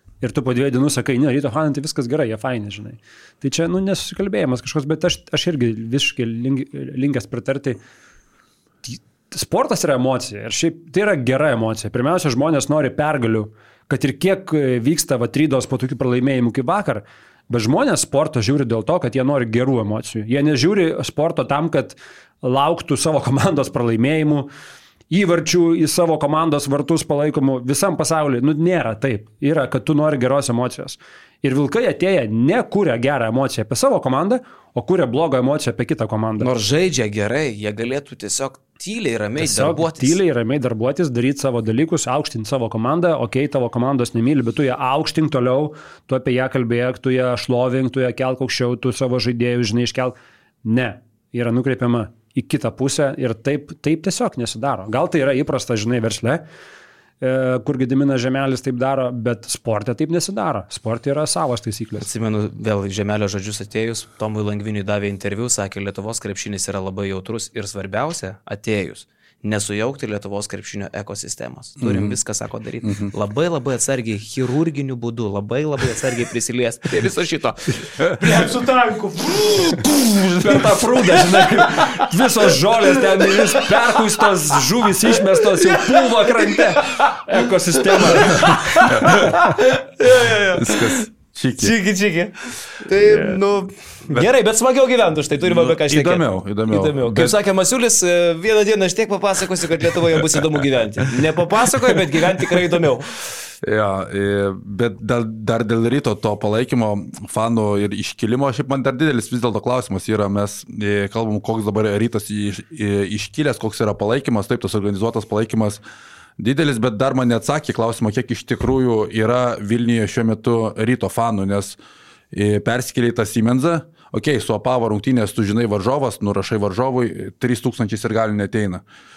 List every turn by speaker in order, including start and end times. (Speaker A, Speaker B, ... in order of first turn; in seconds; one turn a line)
Speaker A: 0.2-7.8
Speaker A: 8.8-24.5
Speaker A: 25.1-36.5
Speaker B: 36.4-40.2
Speaker A: 39.4-56.5
Speaker A: 57.2-62.1
Speaker B: 62.0-82.0
Speaker C: 71.8-72.2
Speaker C: 72.8-73.1
Speaker C: 78.0-78.5
Speaker A: 80.1-89.5
Speaker B: 83.2-83.5
Speaker B: 85.7-87.2
Speaker B: 88.0-91.0
Speaker C: 88.9-89.3
Speaker C: 90.5-91.7
Speaker B: 91.6-103.2
Speaker C: 95.4-97.4
Speaker C: 103.6-115.8
Speaker C: 116.4-121.8
Speaker C: 122.3-128.8